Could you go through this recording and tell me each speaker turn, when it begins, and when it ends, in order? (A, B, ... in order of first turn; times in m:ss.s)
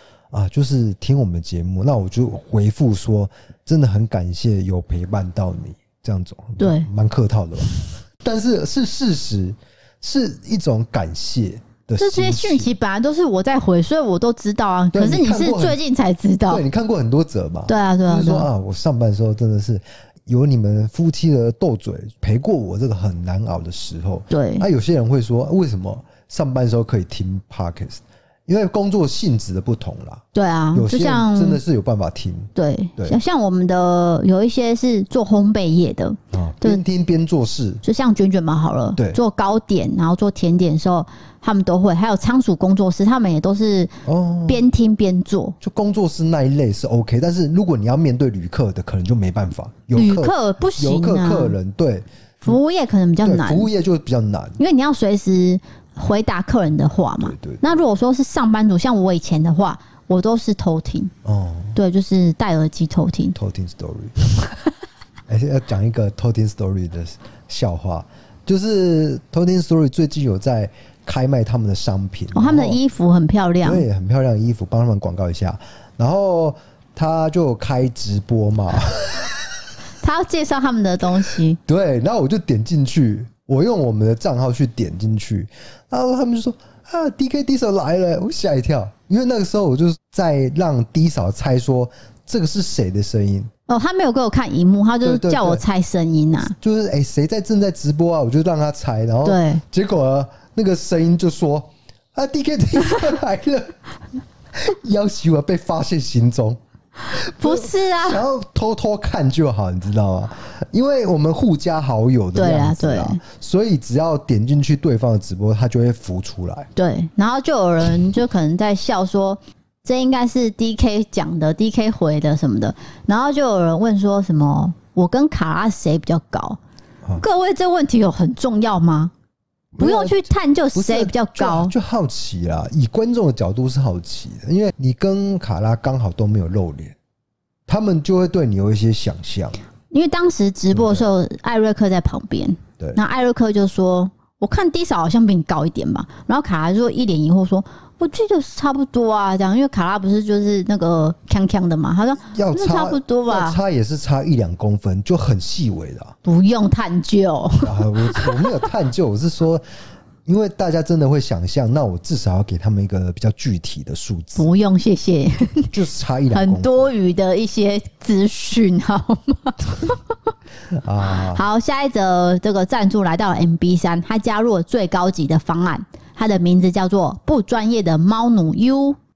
0:00.3-0:12.7 A
0:06.6-0:06.9 B
0:12.0-0:16.6 B
0:14.9-0:15.8 A
0:16.5-0:33.2 A
0:17.7-0:18.5 B
0:24.3-0:24.7 B
0:30.3-0:31.6 B
0:32.5-0:36.8 B
0:36.3-0:37.8 A
0:37.8-0:43.9 B
0:44.0-0:44.6 A
0:44.4-0:45.6 B
0:45.6-0:52.6 A
0:49.9-0:51.6 B
0:52.4-0:53.7 B
0:53.2-0:54.6 A
0:54.6-1:01.1 B
0:57.2-0:57.8 A
1:01.2-1:01.8 A
1:01.7-1:03.4 B
1:03.3-1:04.2 A
1:05.3-1:12.8 A
1:12.3-1:13.8 B
1:13.6-1:19.6 A
1:20.0-1:21.6 B
1:21.6-1:33.5 A
1:33.7-1:36.5 B
1:35.0-1:35.6 A
1:36.5-1:43.8 A
1:39.2-1:39.6 B
1:44.5-1:46.6 A
1:47.0-1:48.2 B
1:47.1-1:56.7 A
1:52.3-1:53.2 B
1:56.8-2:06.6 B
2:07.2-2:09.1 B
2:09.7-2:17.0 A
2:09.8-2:11.7 B
2:17.7-2:19.6 A
2:19.9-2:33.6 B
2:20.7-2:21.1 A
2:32.3-2:36.2 A
2:36.2-2:38.5 B
2:37.6-2:39.6 A
2:40.2-2:44.5 A
2:44.4-2:45.7 B
2:45.7-2:46.9 A
2:46.3-2:50.0 B
2:50.7-2:51.4 A
2:51.3-2:59.0 B